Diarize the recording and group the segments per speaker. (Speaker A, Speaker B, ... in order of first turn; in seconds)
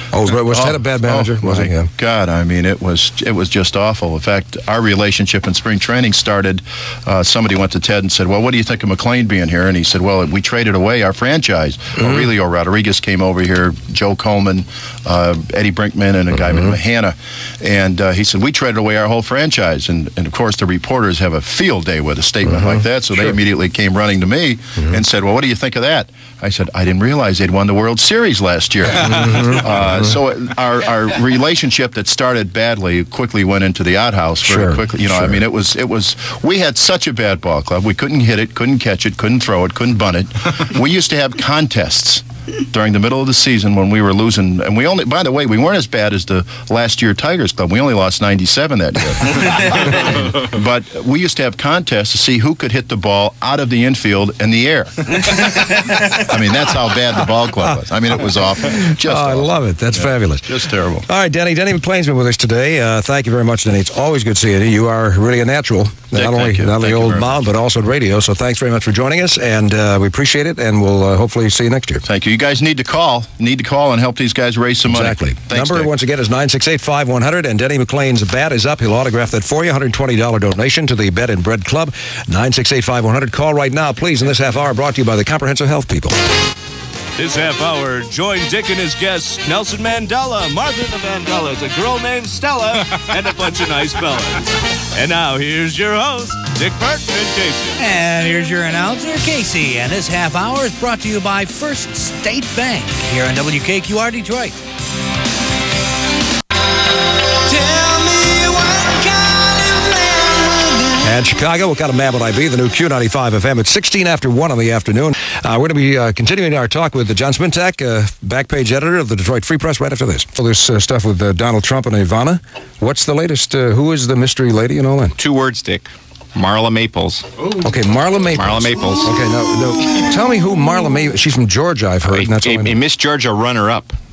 Speaker A: 0.1-1.9, 29.1-29.5, 34.4-35.4, 58.6-72.0, 74.9-86.2, 111.0-125.2, 127.5-132.8
Speaker B: 0.5-61.0, 66.1-67.4, 72.0-75.9
Speaker C: 87.2-97.8
Speaker D: 97.8-104.6, 107.5-111.0
Speaker E: 125.2-127.5, 128.3-129.1, 132.1-133.9